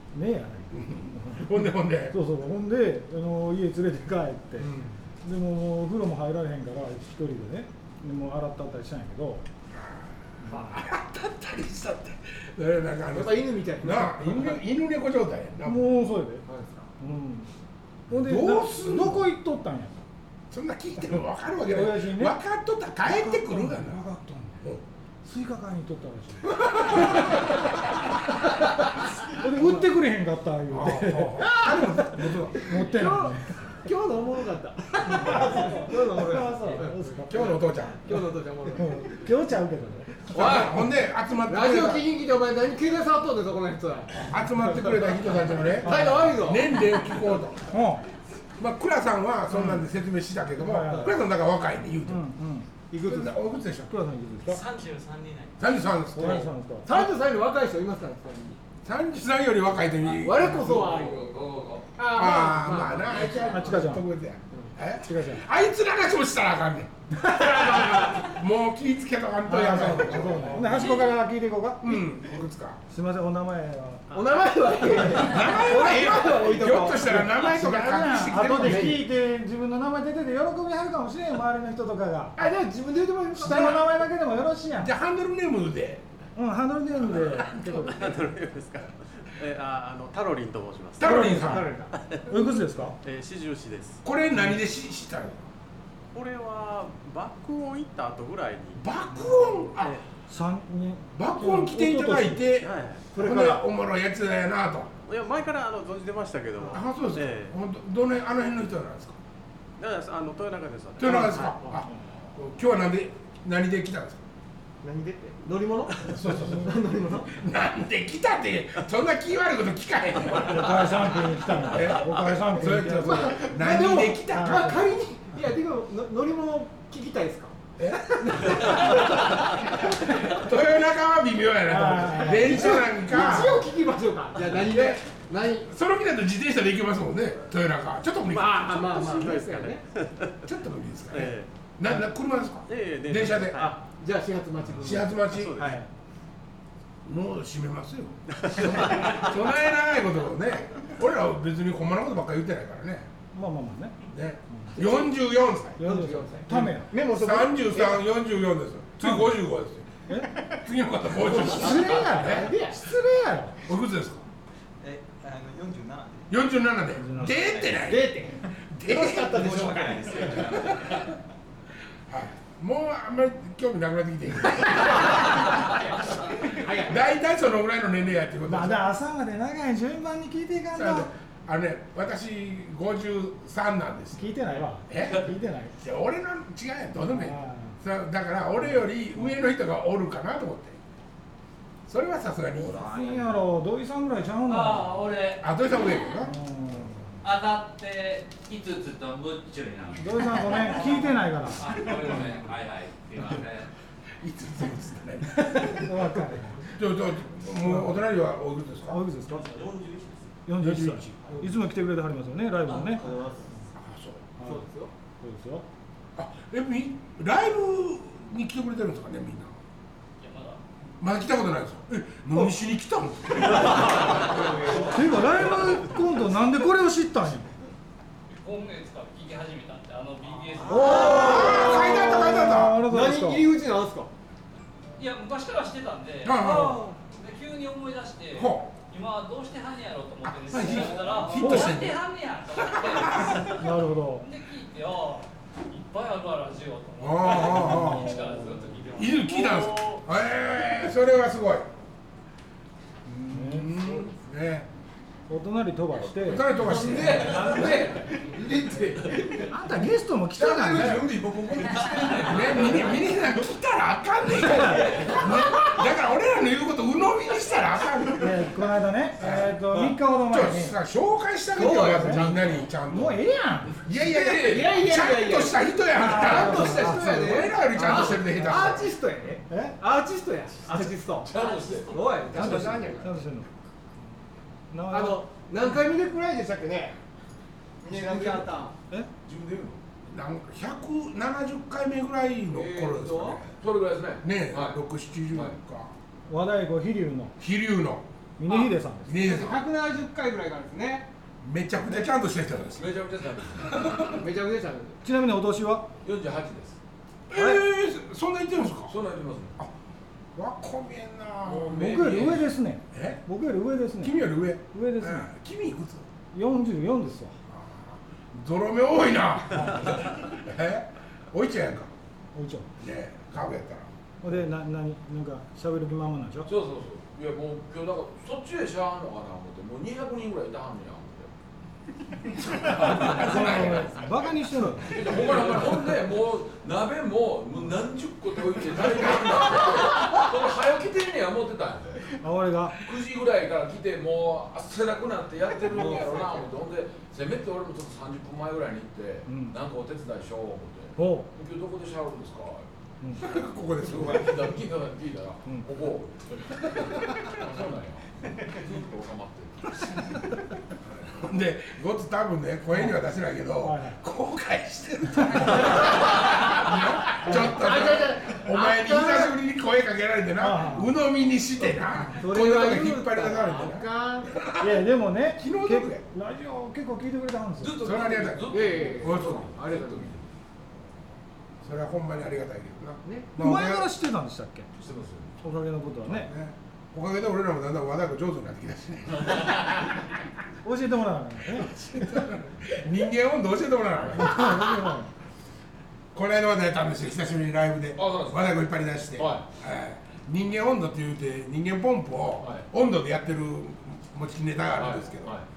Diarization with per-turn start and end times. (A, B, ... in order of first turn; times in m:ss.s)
0:00.1-0:04.7 A
0:00.7-0:02.2 B
0:04.6-0:04.9 B
0:05.2-0:09.4 A
0:09.7-0:15.9 B
0:10.4-0:10.8 A
0:13.1-0:14.6 C
0:15.6-0:16.4 A
0:16.4-0:16.9 C
0:17.0-0:17.5 A
0:18.1-0:20.0 A
0:18.1-0:19.3 B
0:20.5-0:24.1 B
0:21.6-0:22.4 A
0:23.0-0:24.6 A
0:25.2-0:27.3 A
0:26.8-0:27.2 B
0:28.4-0:33.6 A
0:30.7-0:32.7 B
0:31.6-0:31.9 C
0:32.7-0:39.2 C
0:35.1-0:37.6 A
0:37.3-0:38.1 B
0:38.7-0:40.5 A
0:40.3-0:42.1 B
0:40.3-0:40.9 C
0:41.4-0:44.2 C
0:44.2-0:47.7 B
0:45.8-0:46.8 C
0:45.8-0:46.4 A
0:47.7-0:48.0 A
0:48.6-0:52.3 B
0:50.6-0:51.2 A
0:50.8-0:51.1 C
0:52.1-0:52.7 A
0:52.9-0:53.4 C
0:53.0-0:53.9 B
0:53.9-0:54.6 A
0:54.4-0:55.9 D
0:55.6-0:57.0 B
0:56.1-0:56.9 A
0:56.2-0:58.6 C
0:58.8-1:00.9 B
1:00.1-1:01.9 E
1:00.2-1:01.4 C
1:02.0-1:03.5 C
1:02.0-1:11.0 B
1:02.8-1:03.4 E
1:03.4-1:04.0 A
1:05.0-1:05.4 A
1:07.2-1:08.3 C
1:09.4-1:12.1 A
1:10.0-1:10.9 C
1:11.8-1:12.8 B
1:12.9-1:14.1 A
1:14.1-1:17.6 C
1:15.1-1:19.0 B
1:17.3-1:22.4 A
1:18.5-1:19.0 C
1:22.4-1:23.8 C
1:23.4-1:23.9 B
1:23.4-1:24.9 A
1:24.8-1:26.0 B
1:26.4-1:28.2 A
1:27.0-1:28.2 B
1:27.8-1:31.1 F
1:31.0-1:31.7 B
1:31.0-1:31.7 A
1:31.1-1:31.9 C
1:31.9-1:32.2 F
1:32.3-1:33.0 A
1:33.0-1:34.0 F
1:34.0-1:35.4 B
1:36.1-1:38.8 F
1:38.8-1:40.0 B
1:39.8-1:40.0 F
1:40.2-1:42.5 A
1:41.1-1:44.9 B
1:42.6-1:43.1 F
1:43.1-1:43.6 C
1:45.1-1:47.5 F
1:46.6-1:46.8 C
1:46.7-1:49.2 B
1:49.8-1:51.5 F
1:51.0-1:54.2 B
1:51.0-1:51.8 C
1:54.8-1:57.3 C
1:56.1-2:04.9 B
1:56.3-1:56.7 A
2:00.3-2:03.4 A
2:03.0-2:07.5 C
2:04.3-2:04.9 A
2:07.8-2:09.2 B
2:08.2-2:10.4 C
2:09.8-2:13.7 B
2:11.7-2:12.8 A
2:12.1-2:15.7 C
2:14.4-2:15.0 B
2:15.6-2:19.4 B
2:18.3-2:19.8 C
2:19.1-2:20.3 F
2:20.4-2:23.6 B
2:21.1-2:21.5 F
2:22.7-2:23.8 F
2:23.5-2:25.8 C
2:24.8-2:25.7 B
2:25.3-2:25.8 F
2:27.0-2:33.1 B
2:28.4-2:29.2 F
2:33.3-2:34.0 A
2:34.1-2:35.8 B
2:34.8-2:35.1 C
2:35.8-2:36.9 A
2:35.8-2:38.1 C
2:36.5-2:39.8 B
2:39.0-2:39.4 A
2:40.1-2:40.3 A
2:40.4-2:42.6 B
2:41.2-2:42.8 C
2:41.4-2:43.6 A
2:43.6-2:44.2 B
2:46.3-2:51.0 B
2:47.0-2:47.5 A
2:47.8-2:51.1 C
2:52.1-2:58.9 B
2:56.4-2:57.0 C
2:58.4-3:01.1 A
3:00.7-3:04.3 B
3:04.1-3:05.7 A
3:04.9-3:10.8 B
3:07.0-3:07.8 A
3:11.9-3:12.8 B
3:12.6-3:15.0 A
3:14.4-3:15.9 G
3:15.4-3:16.3 B
3:16.2-3:17.2 A
3:17.2-3:23.7 G
3:20.0-3:21.7 A
3:24.2-3:25.9 B
3:25.4-3:26.7 A
3:26.7-3:29.0 B
3:27.6-3:28.0 A
3:28.9-3:29.5 A
3:29.3-3:30.2 D
3:30.4-3:33.0 A
3:30.6-3:31.4 B
3:33.0-3:33.5 C
3:33.8-3:34.3 B
3:34.4-3:34.9 C
3:35.2-3:35.6 A
3:36.2-3:39.5 B
3:40.2-3:40.6 G
3:41.0-3:44.6 B
3:43.6-3:45.6 C
3:44.8-3:47.5 A
3:48.4-3:51.4 G
3:50.6-3:54.1 C
3:50.6-3:53.5 A
3:50.8-3:52.8 B
3:55.0-4:10.0 G
3:56.2-3:56.8 B
3:56.4-3:57.0 C
3:58.3-3:58.7 B
4:00.2-4:02.0 B
4:01.3-4:01.7 A
4:02.6-4:03.6 B
4:03.5-4:04.3 A
4:07.0-4:08.2 B
4:07.5-4:08.6 A
4:08.9-4:11.7 B
4:13.1-4:14.7 B
4:13.3-4:13.7 A
4:13.7-4:14.1 C
4:15.3-4:16.6 A
4:16.2-4:17.8 B
4:16.6-4:18.8 E
4:16.8-4:19.5 C
4:19.3-4:21.0 A
4:20.4-4:23.1 E
4:20.7-4:21.2 B
4:22.1-4:28.4 B
4:24.8-4:25.2 E
4:28.1-4:30.7 A
4:29.2-4:29.5 B
4:30.2-4:33.2 B
4:31.5-4:32.7 C
4:31.7-4:32.2 A
4:32.9-4:33.8 A
4:33.8-4:38.9 B
4:33.9-4:34.8 E
4:34.4-4:43.2 C
4:35.9-4:37.4 A
4:38.4-4:38.7 A
4:39.5-4:39.8 A
4:41.2-4:42.5 E
4:41.4-4:42.1 D
4:42.3-4:43.0 B
4:42.3-4:43.5 A
4:44.7-4:45.2 A
4:44.9-4:47.0 C
4:47.8-4:48.7 C
4:47.9-4:48.4 E
4:49.2-4:49.8 E
4:50.1-4:53.5 B
4:52.5-4:53.4 C
4:53.6-4:54.8 E
4:54.2-4:55.9 B
4:55.3-4:55.6 E
4:56.3-4:57.3 A
4:57.4-4:58.0 B
4:58.4-4:59.1 A
4:58.4-5:01.1 C
4:59.1-4:59.6 B
5:01.4-5:02.9 B
5:02.7-5:04.2 E
5:03.6-5:04.0 B
5:03.9-5:05.0 C
5:05.0-5:05.9 A
5:06.0-5:06.8 E
5:07.3-5:09.0 B
5:07.3-5:07.6 A
5:08.9-5:09.5 E
5:10.3-5:11.9 B
5:11.4-5:12.5 E
5:11.7-5:15.3 A
5:12.9-5:13.2 B
5:14.0-5:16.1 B
5:16.3-5:17.4 A
5:17.5-5:21.9 B
5:19.5-5:20.0 A
5:22.3-5:22.7 A
5:22.8-5:23.9 B
5:24.2-5:26.5 A
5:26.4-5:31.3 E
5:32.4-5:34.1 B
5:32.5-5:33.8 E
5:32.9-5:35.0 A
5:34.8-5:42.1 E
5:35.3-5:35.6 B
5:42.2-5:42.8 A
5:42.8-5:52.7 E
5:45.7-5:46.5 C
5:49.3-5:49.5 A
5:51.0-5:51.3 A
5:53.1-5:54.6 B
5:53.8-6:00.4 E
6:01.0-6:16.0 B
6:03.6-6:04.0 A
6:07.2-6:07.5 A
6:07.2-6:09.4 C
6:10.4-6:11.0 A
6:12.2-6:14.3 C
6:14.6-6:17.8 A
6:17.6-6:20.2 E
6:17.8-6:19.5 B
6:18.5-6:20.1 C
6:21.6-6:23.9 B
6:23.4-6:24.7 A
6:24.8-6:25.3 E
6:25.4-6:26.3 A
6:26.1-6:29.9 B
6:29.2-6:29.7 E
6:30.6-6:32.2 A
6:31.5-6:34.9 B
6:34.2-6:35.1 A
6:36.1-6:45.4 B
6:38.0-6:38.6 E
6:39.2-6:39.5 E
6:42.4-6:42.6 E
6:44.8-6:45.4 E